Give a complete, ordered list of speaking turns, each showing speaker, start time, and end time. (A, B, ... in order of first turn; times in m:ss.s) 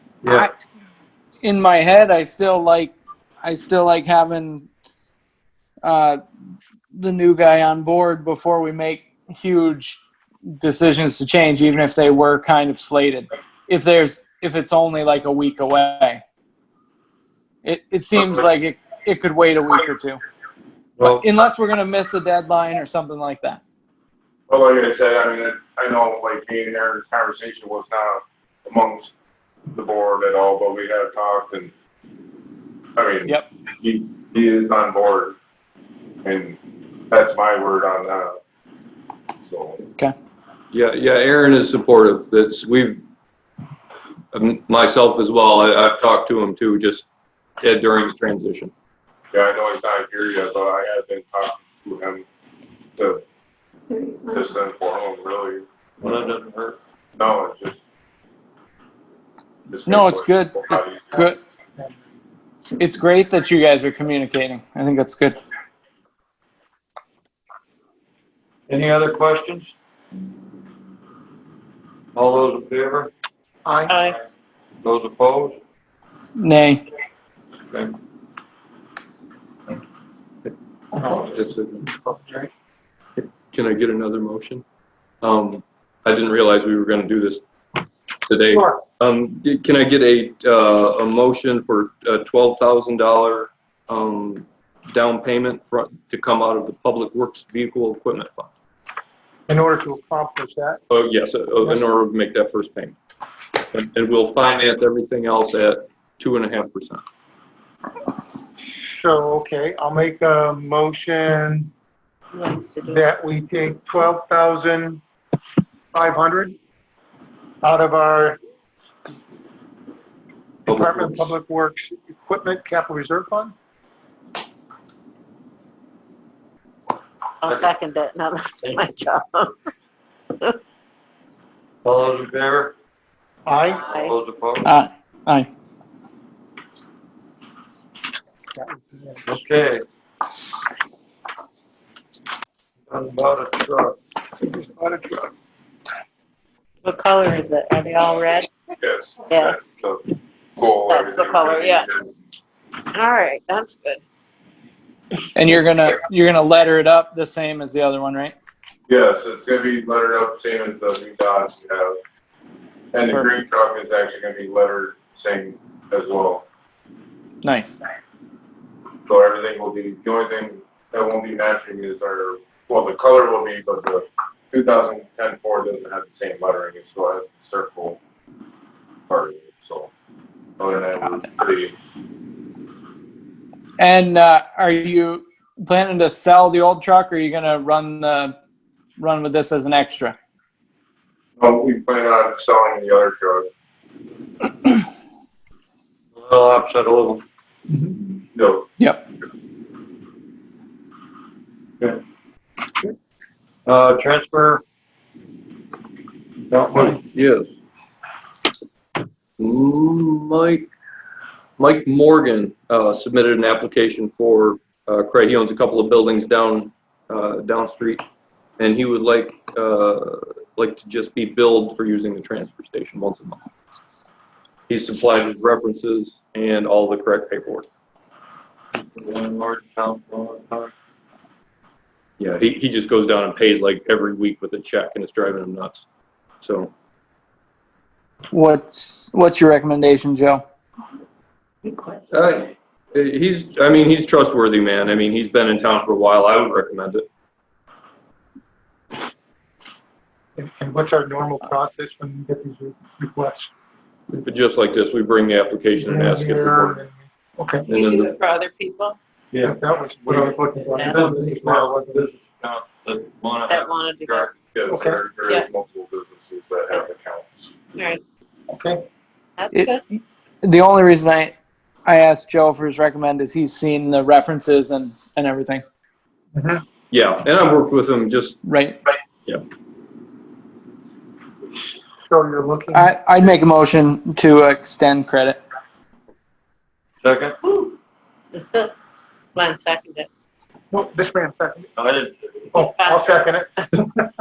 0:00.3-0:00.5 A
0:01.4-0:04.7 A
0:05.8-0:06.2 A
0:06.9-0:10.0 A
0:10.6-0:16.2 A
0:17.6-0:20.2 A
0:21.0-0:21.2 B
0:21.0-0:23.6 A
0:24.5-0:29.1 C
0:29.7-0:31.7 C
0:33.0-0:35.4 C
0:36.2-0:36.6 C
0:37.1-0:38.4 C
0:39.4-0:39.8 C
0:40.7-0:43.0 D
0:44.3-0:47.0 D
0:47.6-0:48.7 D
0:49.3-0:52.2 C
0:53.0-0:53.2 C
0:54.3-0:55.6 C
0:56.0-0:56.8 B
0:57.2-0:57.8 C
0:59.7-1:01.1 C
0:59.8-1:01.4 A
1:02.8-1:05.4 A
1:08.7-1:09.7 B
1:12.1-1:13.1 B
1:13.6-1:14.0 E
1:13.9-1:14.2 F
1:14.8-1:15.6 B
1:16.4-1:16.8 A
1:17.7-1:18.0 B
1:21.0-1:22.5 E
1:21.1-1:21.9 D
1:23.2-1:24.6 D
1:25.2-1:27.4 D
1:28.2-1:38.5 D
1:39.5-1:40.8 E
1:40.9-1:43.0 D
1:43.7-1:47.0 D
1:48.8-1:51.7 E
1:52.3-1:53.0 F
1:52.8-1:55.0 E
1:55.9-1:56.6 E
1:57.6-1:58.4 E
2:00.7-2:03.6 E
2:00.7-2:01.3 B
2:07.4-2:09.6 F
2:07.4-2:07.7 B
2:08.6-2:08.9 B
2:11.8-2:12.8 B
2:13.5-2:13.8 E
2:13.8-2:14.2 F
2:13.9-2:14.7 B
2:14.6-2:15.5 A
2:18.6-2:19.3 E
2:19.3-2:19.9 B
2:22.9-2:24.0 B
2:24.4-2:25.3 E
2:26.8-2:28.5 F
2:28.8-2:32.1 C
2:29.3-2:29.6 F
2:30.8-2:31.9 F
2:32.9-2:34.0 F
2:35.4-2:38.4 A
2:38.9-2:42.0 C
2:42.9-2:46.4 C
2:47.4-2:47.8 A
2:49.1-2:58.0 C
2:59.1-2:59.9 C
3:00.6-3:01.7 C
3:03.8-3:08.4 A
3:09.0-3:10.2 A
3:11.4-3:13.5 C
3:16.2-3:17.2 B
3:18.3-3:18.7 C
3:18.8-3:19.1 A
3:23.6-3:24.6 B
3:26.5-3:27.0 B
3:26.8-3:27.5 D
3:29.4-3:30.7 D
3:31.6-3:38.0 D
3:38.6-3:43.4 D
3:44.7-3:47.7 D
3:48.9-3:50.7 B
3:52.2-3:55.9 D
3:56.4-3:56.7 D
3:58.3-4:00.4 A
4:02.1-4:07.1 D
4:10.4-4:13.5 E
4:14.1-4:16.8 D
4:15.8-4:17.7 E
4:17.7-4:18.1 D
4:17.7-4:19.0 F
4:19.3-4:24.4 B
4:19.4-4:22.0 E
4:20.2-4:21.0 F
4:23.5-4:24.3 F
4:24.5-4:27.5 C
4:24.7-4:25.0 E
4:27.7-4:28.0 F
4:28.5-4:28.8 E
4:29.4-4:29.8 F
4:29.5-4:31.3 A
4:31.8-4:35.6 A
4:36.4-4:36.6 E
4:36.9-4:38.4 D
4:38.4-4:38.8 A
4:42.0-4:42.9 E
4:42.7-4:45.4 A
4:47.0-4:47.4 B
4:47.4-4:47.8 F
4:48.4-4:48.7 F
4:49.4-4:50.1 F
4:50.7-4:51.7 E
4:51.8-4:52.7 B
4:52.5-4:53.9 E
4:52.7-4:53.2 F